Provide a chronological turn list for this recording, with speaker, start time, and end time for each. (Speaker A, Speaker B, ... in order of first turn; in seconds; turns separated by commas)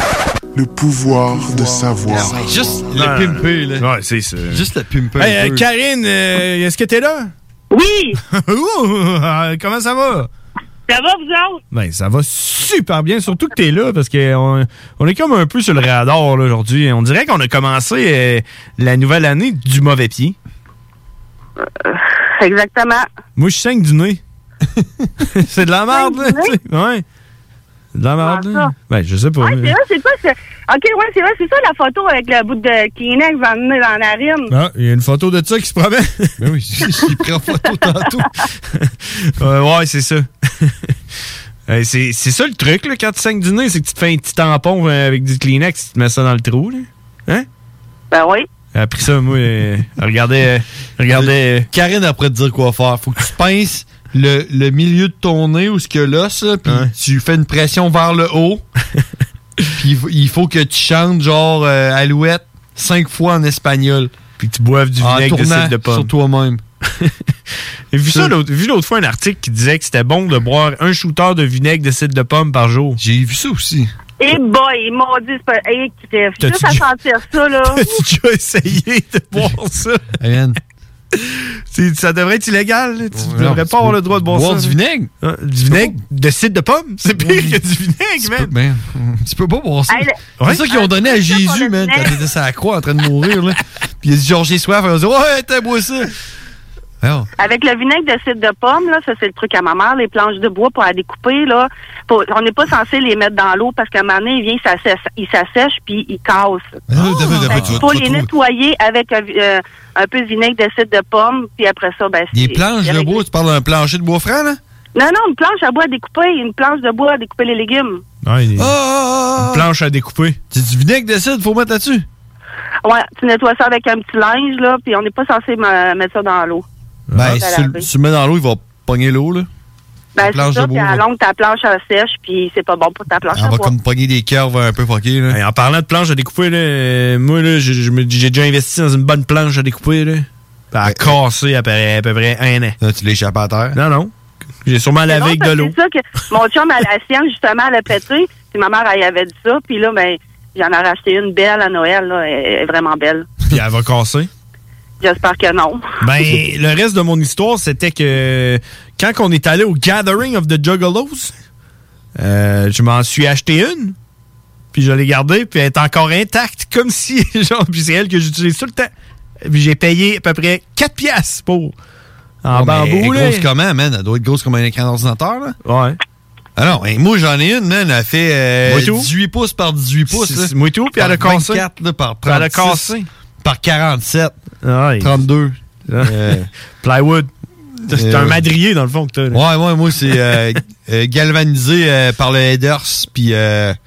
Speaker A: 0.5-2.6, Speaker B: 1.5-3.9, Speaker C: 2.9-4.6, Speaker B: 4.5-5.7, Speaker C: 5.2-7.3, Speaker D: 7.7-8.2, Speaker C: 8.3-10.3, Speaker D: 10.9-11.6, Speaker C: 11.7-20.4, Speaker D: 21.6-23.1, Speaker C: 23.4-24.2, Speaker C: 25.3-27.0, Speaker D: 25.9-26.5, Speaker C: 27.9-29.8, Speaker D: 28.2-28.7, Speaker D: 29.4-34.5, Speaker C: 34.5-36.3, Speaker B: 36.4-38.3, Speaker C: 38.8-40.7, Speaker C: 41.7-47.5, Speaker D: 48.1-48.5, Speaker C: 48.7-51.7, Speaker B: 51.1-58.6, Speaker C: 56.6-56.9, Speaker B: 59.7-64.1, Speaker C: 64.4-66.1, Speaker B: 65.0-66.6, Speaker C: 67.9-73.0, Speaker B: 73.0-73.9, Speaker D: 74.2-77.9, Speaker C: 76.4-76.9, Speaker C: 77.6-80.0, Speaker B: 80.2-80.6, Speaker C: 81.1-88.5, Speaker B: 83.1-85.1, Speaker B: 85.7-86.0, Speaker B: 87.2-87.6, Speaker B: 88.2-96.1, Speaker D: 89.9-92.2, Speaker C: 90.4-90.7, Speaker B: 97.0-97.3, Speaker D: 97.4-113.2, Speaker B: 106.9-108.3, Speaker C: 107.0-107.8, Speaker B: 112.3-114.6, Speaker D: 114.9-118.0, Speaker C: 118.2-118.7, Speaker B: 118.6-119.7, Speaker C: 119.4-120.4, Speaker B: 120.5-122.0, Speaker D: 122.8-126.6, Speaker C: 127.1-127.5, Speaker B: 127.1-129.5, Speaker D: 127.3-127.8, Speaker D: 130.2-133.7, Speaker B: 130.2-131.0, Speaker B: 133.3-135.4, Speaker C: 135.3-142.8, Speaker B: 140.8-141.2, Speaker B: 142.8-143.8, Speaker C: 143.7-144.1, Speaker C: 144.6-145.7, Speaker D: 145.1-153.3, Speaker C: 153.5-154.3, Speaker D: 155.0-155.8, Speaker C: 156.0-161.3, Speaker C: 162.2-163.9, Speaker C: 164.7-168.9, Speaker C: 169.4-171.7, Speaker C: 172.4-173.4, Speaker B: 172.5-175.6, Speaker C: 175.6-176.0, Speaker B: 176.6-184.3, Speaker C: 178.6-179.1, Speaker C: 180.1-181.6, Speaker C: 182.2-183.1, Speaker C: 184.6-185.1, Speaker B: 185.0-186.5, Speaker C: 185.9-186.1, Speaker C: 186.8-187.3, Speaker B: 187.8-188.4, Speaker C: 187.9-189.4, Speaker B: 189.3-193.8